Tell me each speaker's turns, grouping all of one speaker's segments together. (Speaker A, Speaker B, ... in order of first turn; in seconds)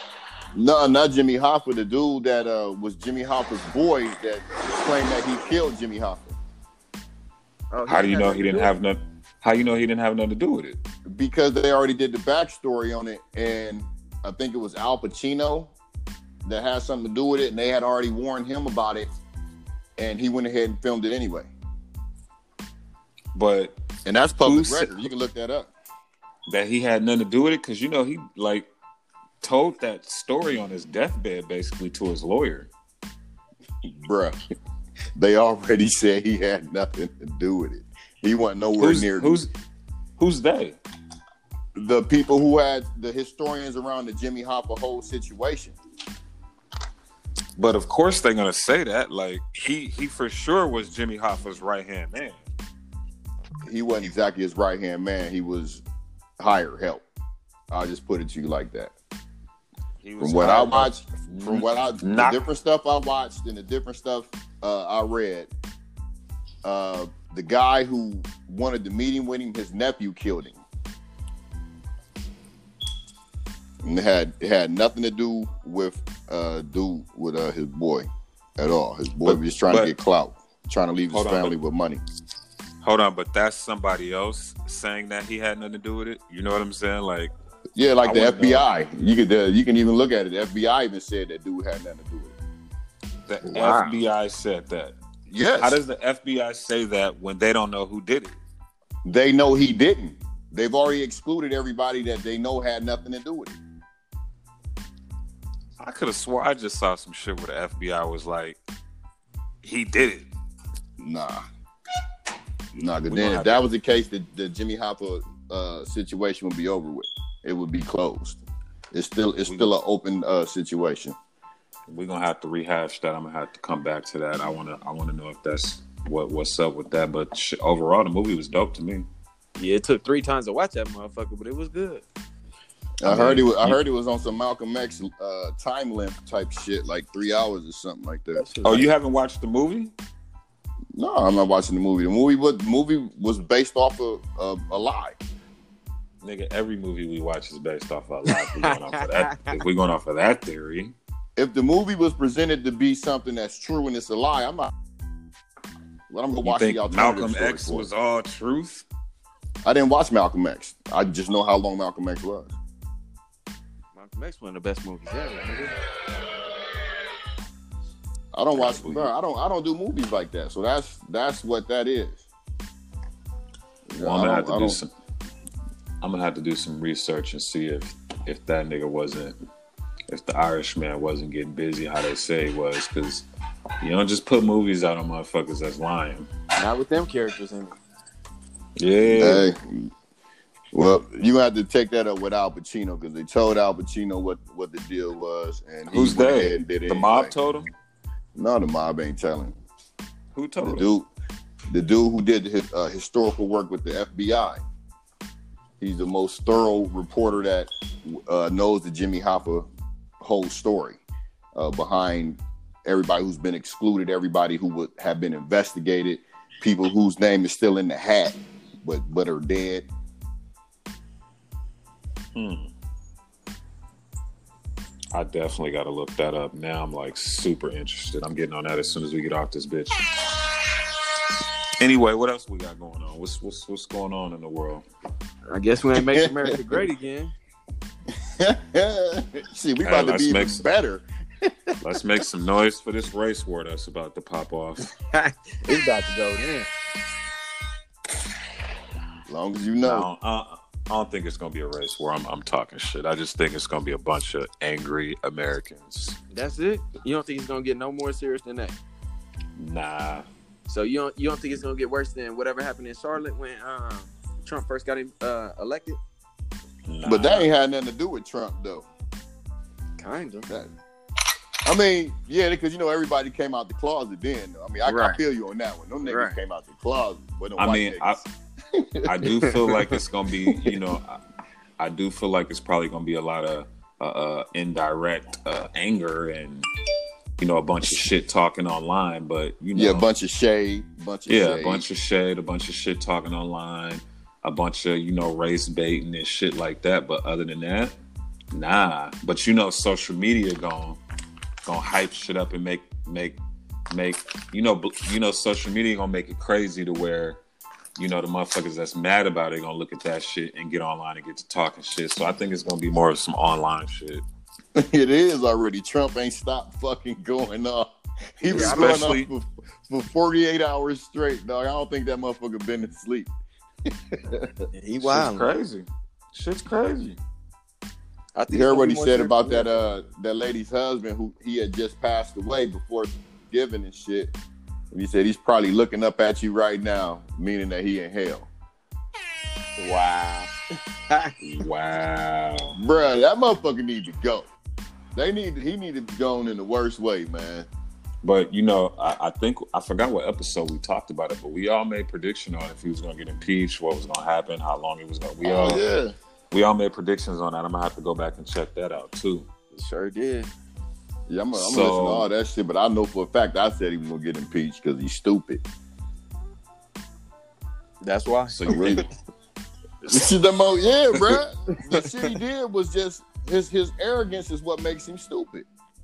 Speaker A: 0.5-6.3, 11.1-15.7, 16.4-19.1, 20.0-21.5, 24.1-25.7, 33.8-34.4, 35.1-39.4, 41.8-45.8, 53.6-55.8, 56.4-57.0, 57.7-58.9, 60.2-65.5, 66.6-70.6, 73.8-82.0, 87.8-92.3, 93.4-94.0, 95.3-95.8, 99.0-103.6, 111.0-111.4, 112.7-118.4, 118.9-121.2, 133.0-138.5, 140.9-145.2, 151.4-154.7, 156.1-157.9, 159.6-162.5, 168.3-172.2, 173.9-174.8, 189.0-189.9, 190.7-197.3, 198.3-199.5, 200.6-201.1, 201.7-204.6, 205.8-209.7, 210.2-211.0, 211.5-219.9, 235.9-236.8, 238.1-241.8, 249.2-250.1, 267.0-268.8, 271.6-278.2, 278.8-279.1, 289.7-291.8, 314.8-323.3, 323.9-324.5, 328.5-334.3, 334.9-338.5, 342.8-344.5, 345.1-347.7, 355.4-356.1, 361.3-365.6, 368.7-369.0, 370.1-375.6
Speaker B: 7.7-8.7, 129.6-132.0, 138.3-138.8, 148.3-149.6, 163.9-165.8, 186.6-187.7, 235.5-237.3, 245.1-246.7, 256.3-258.8, 260.7-266.0, 270.0-270.5, 274.8-275.2, 276.0-276.4, 318.5-319.1, 324.7-325.5, 328.4-329.7, 339.8-340.5, 359.7-360.5, 368.0-369.1, 371.9-372.3
Speaker C: 7.9-10.8, 23.3-23.7, 24.4-25.0, 26.5-28.7, 29.4-32.7, 38.8-39.5, 40.2-40.8, 47.6-52.4, 60.0-62.4, 79.2-79.9, 81.1-81.5, 82.8-87.3, 88.0-88.9, 93.3-95.0, 95.6-98.4, 105.8-108.6, 109.6-110.3, 113.1-113.6, 119.5-119.7, 121.9-129.1, 133.0-133.8, 138.6-139.9, 146.2-150.9, 156.4-158.8, 168.5-169.1, 174.0-174.9, 176.0-179.4, 180.1-183.2, 183.8-186.3, 188.8-189.5, 195.9-197.7, 200.3-200.9, 222.3-222.7, 225.1-230.1, 231.8-234.8, 239.8-240.6, 241.8-244.9, 249.8-256.2, 259.6-260.2, 266.9-267.5, 277.6-278.2, 279.0-281.2, 281.8-286.7, 287.4-290.1, 291.3-297.9, 298.5-301.0, 301.6-303.4, 303.9-307.4, 308.0-314.2, 318.5-319.3, 325.0-327.2, 341.4-342.8, 348.2-355.8, 356.5-359.5, 361.5-362.3, 368.5-369.1